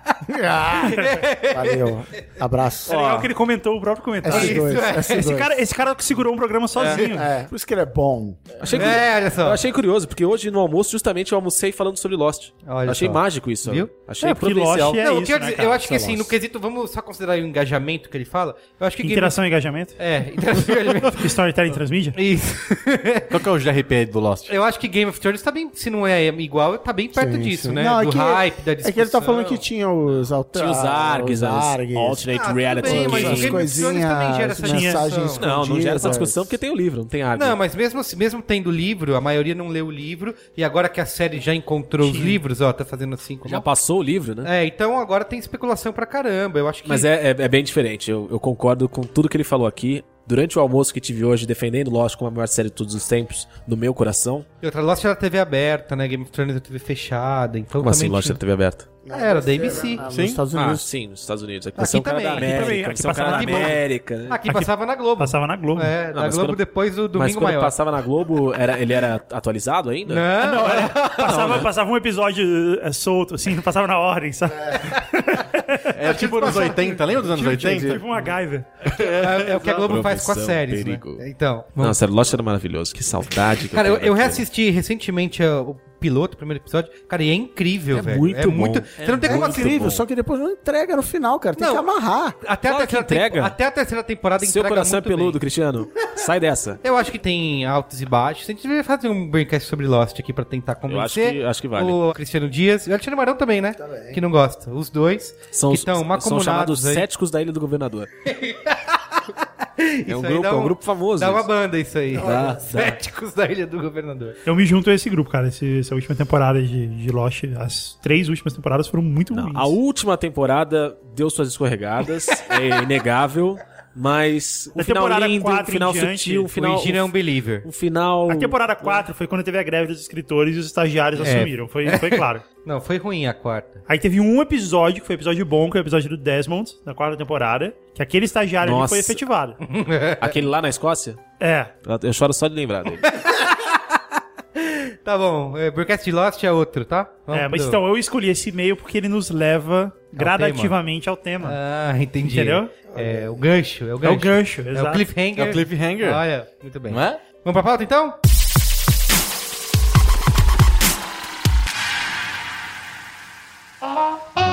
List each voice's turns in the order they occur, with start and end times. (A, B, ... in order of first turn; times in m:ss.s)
0:00.2-0:02.9 A
0:00.8-0:01.9 B
0:02.9-0:03.3 C
0:02.9-0:07.3 D
0:04.2-0:05.6 A
0:04.3-0:05.3 B
0:06.8-0:07.0 C
0:07.0-0:09.0 A
0:08.6-0:15.0 C
0:08.7-0:09.6 B
0:12.6-0:13.9 B
0:14.2-0:15.8 D
0:14.9-0:19.4 B
0:15.8-0:16.3 A
0:19.0-0:20.0 D
0:20.0-0:21.3 B
0:21.1-0:22.2 D
0:22.1-0:23.4 B
0:23.3-0:24.5 E
0:24.5-0:29.6 B
0:27.1-0:36.6 A
0:30.5-0:33.7 C
0:32.3-0:35.4 B
0:33.2-0:33.4 D
0:34.6-0:35.0 D
0:35.3-0:37.6 C
0:37.3-0:43.7 B
0:42.0-0:42.4 D
0:43.4-0:44.5 C
0:44.4-0:47.1 B
0:46.8-0:54.4 C
0:54.6-0:58.4 B
0:57.8-0:58.9 C
0:59.0-1:00.9 A
0:59.1-1:00.0 B
1:00.1-1:00.4 E
1:00.5-1:04.4 C
1:01.8-1:07.7 B
1:02.4-1:03.8 D
1:04.4-1:05.9 D
1:06.1-1:06.6 C
1:07.1-1:10.3 C
1:10.1-1:11.6 B
1:10.4-1:18.9 D
1:11.2-1:11.7 C
1:15.9-1:18.1 E
1:16.1-1:16.8 B
1:18.9-1:21.2 C
1:19.0-1:22.0 B
1:21.8-1:24.4 C
1:23.7-1:29.8 B
1:27.9-1:30.0 C
1:29.2-1:32.4 A
1:31.6-1:31.9 B
1:32.4-1:35.4 B
1:32.7-1:33.6 C
1:34.4-1:36.8 C
1:36.8-1:47.0 B
1:40.9-1:42.0 C
1:43.8-1:44.2 A
1:45.5-1:48.1 C
1:48.2-1:54.4 B
1:50.1-1:51.5 C
1:52.1-1:52.7 A
1:52.2-1:53.0 C
1:54.4-1:59.8 D
1:59.3-2:09.1 C
2:04.8-2:06.5 D
2:06.5-2:07.7 B
2:08.3-2:12.4 D
2:11.2-2:13.8 B
2:13.8-2:19.6 D
2:18.6-2:19.2 C
2:19.6-2:20.4 B
2:20.2-2:21.2 C
2:21.4-2:21.7 D
2:21.8-2:23.2 C
2:23.1-2:23.8 B
2:24.6-2:27.8 B
2:27.3-2:31.6 D
2:30.1-2:30.8 B
2:31.4-2:38.2 B
2:32.2-2:32.7 D
2:32.9-2:33.4 A
2:34.0-2:35.1 D
2:35.3-2:36.2 E
2:36.9-2:37.2 E